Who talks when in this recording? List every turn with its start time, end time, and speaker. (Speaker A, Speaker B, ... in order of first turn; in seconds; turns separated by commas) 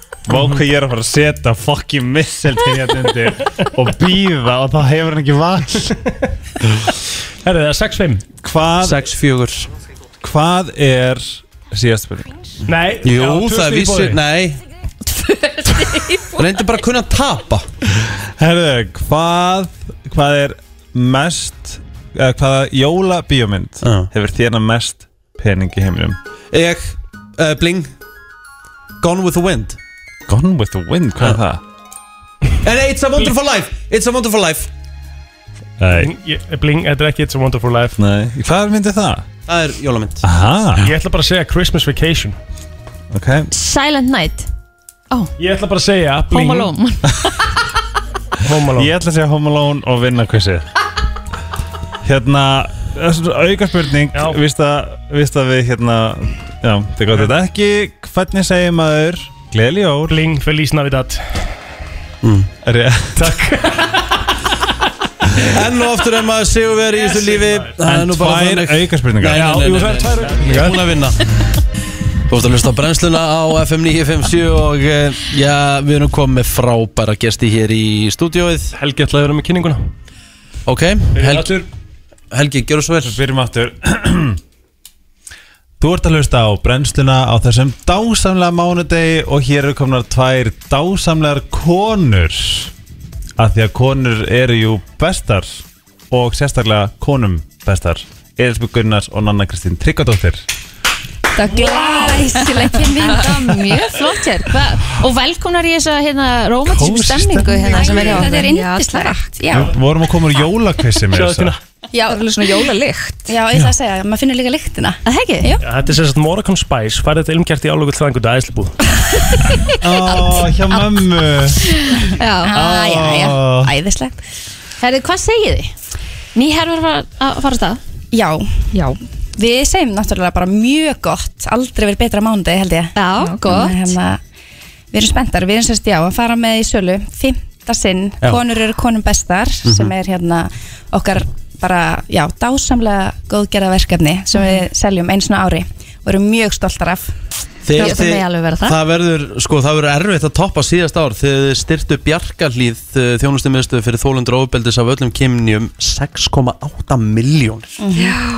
Speaker A: 0.3-6.0, Speaker B: 0.3-0.6, Speaker B: 7.4-8.3, Speaker A: 8.4-9.1, Speaker C: 8.8-9.7, Speaker A: 10.2-12.4, Speaker B: 12.7-14.2, Speaker C: 13.0-14.6, Speaker D: 15.1-16.6, Speaker C: 16.3-17.7, Speaker A: 18.0-26.2, Speaker C: 23.8-24.1, Speaker C: 26.5-27.9, Speaker C: 29.0-29.8, Speaker A: 30.3-31.6, Speaker C: 32.6-34.7, Speaker A: 35.8-36.1, Speaker B: 35.9-38.0, Speaker A: 38.0-39.3, Speaker C: 39.5-40.2, Speaker A: 40.2-40.9, Speaker B: 40.8-42.4, Speaker A: 43.1-43.5, Speaker D: 43.5-44.5, Speaker B: 45.4-46.7, Speaker D: 46.3-47.5, Speaker B: 48.4-48.9, Speaker A: 48.7-50.7, Speaker A: 52.0-60.2, Speaker B: 54.1-54.4, Speaker B: 60.1-61.5, Speaker C: 62.2-62.5, Speaker A: 62.6-63.4, Speaker B: 63.2-64.7, Speaker C: 65.4-71.2, Speaker B: 66.9-67.7, Speaker A: 67.8-69.5, Speaker B: 69.3-71.0, Speaker C: 72.3-78.7, Speaker B: 78.7-79.9, Speaker C: 80.7-81.6, Speaker B: 81.2-81.7, Speaker C: 82.3-83.2, Speaker A: 83.0-84.4, Speaker A: 85.8-92.7, Speaker A: 93.4-100.5, Speaker E: 101.3-103.5, Speaker D: 101.7-109.3, Speaker A: 106.7-108.0, Speaker E: 107.5-109.8, Speaker F: 107.8-108.6, Speaker A: 109.5-111.6, Speaker B: 111.1-111.6, Speaker E: 111.9-112.6, Speaker F: 112.1-113.3, Speaker E: 113.3-115.6, Speaker D: 115.0-115.6, Speaker B: 115.6-118.8, Speaker A: 119.8-121.8, Speaker D: 121.9-122.7, Speaker E: 122.4-124.2, Speaker A: 122.5-123.7, Speaker D: 124.8-125.7, Speaker D: 126.3-127.8, Speaker E: 128.1-134.2, Speaker D: 132.9-133.9, Speaker F: 133.2-133.7, Speaker E: 134.9-147.1, Speaker C: 139.7-139.9, Speaker C: 147.7-157.8, Speaker D: 147.8-148.8, Speaker E: 157.8-158.2